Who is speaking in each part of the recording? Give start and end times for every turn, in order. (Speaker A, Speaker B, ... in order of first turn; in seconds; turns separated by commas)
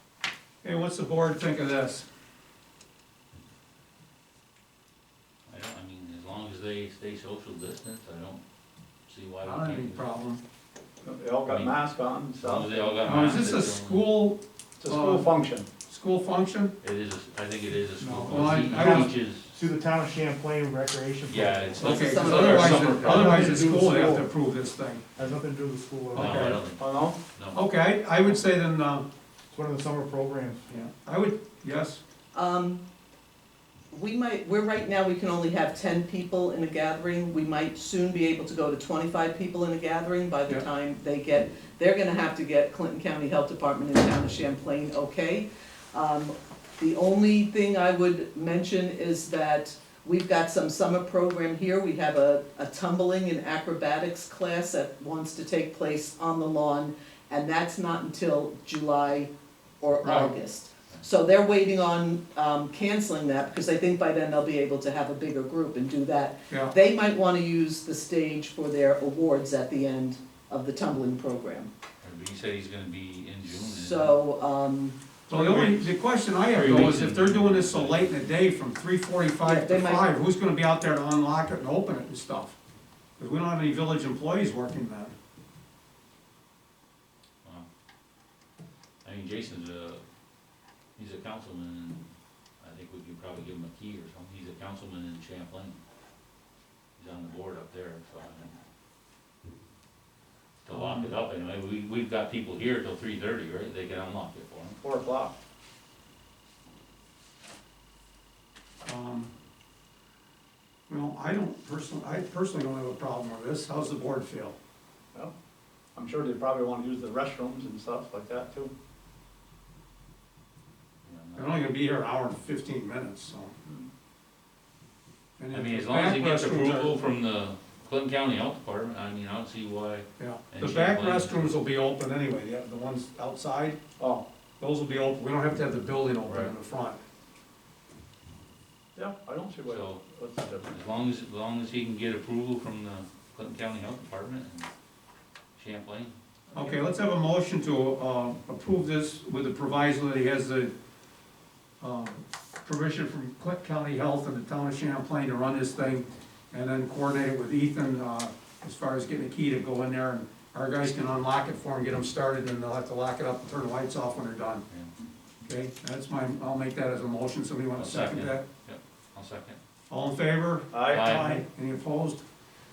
Speaker A: 0.6-2.1, Speaker B: 5.5-8.4, Speaker B: 9.1-10.1, Speaker A: 9.4-10.4, Speaker C: 11.0-12.8, Speaker B: 11.5-11.8, Speaker B: 12.4-14.1, Speaker A: 13.0-15.3, Speaker C: 14.8-15.7, Speaker A: 15.9-16.8, Speaker B: 16.8-19.6, Speaker D: 18.0-24.3, Speaker A: 18.3-19.1, Speaker B: 21.3-23.4, Speaker A: 21.8-25.0, Speaker E: 21.8-23.1, Speaker D: 25.2-26.4, Speaker A: 26.1-26.6, Speaker B: 26.1-27.6, Speaker C: 26.8-27.2, Speaker A: 27.5-29.1, Speaker D: 29.5-30.7, Speaker A: 30.7-32.0, Speaker E: 32.3-32.8, Speaker E: 33.9-59.3, Speaker E: 59.8-71.7, Speaker A: 60.0-60.3, Speaker B: 72.0-74.1, Speaker E: 73.5-75.0, Speaker C: 75.3-75.8, Speaker A: 75.3-82.6, Speaker B: 76.5-78.3, Speaker E: 79.4-80.1, Speaker A: 83.2-85.1, Speaker B: 89.0-90.0, Speaker B: 91.0-92.0, Speaker B: 92.6-95.8, Speaker B: 97.0-98.5, Speaker B: 100.6-104.8, Speaker A: 100.7-101.1, Speaker C: 104.8-105.3, Speaker A: 108.8-109.3, Speaker A: 110.9-114.5, Speaker C: 116.0-118.7, Speaker B: 121.0-121.6, Speaker A: 121.4-123.5, Speaker A: 125.4-126.9, Speaker B: 125.5-131.6, Speaker A: 130.2-133.8, Speaker C: 134.0-134.2, Speaker A: 134.6-137.0, Speaker B: 136.3-136.5, Speaker C: 138.9-140.7, Speaker B: 139.7-140.0, Speaker B: 140.6-144.7, Speaker B: 145.6-146.8, Speaker A: 146.5-150.7, Speaker A: 151.8-164.6, Speaker A: 165.4-168.4, Speaker B: 167.8-169.6, Speaker A: 169.9-172.2, Speaker C: 170.7-171.1, Speaker B: 170.9-171.4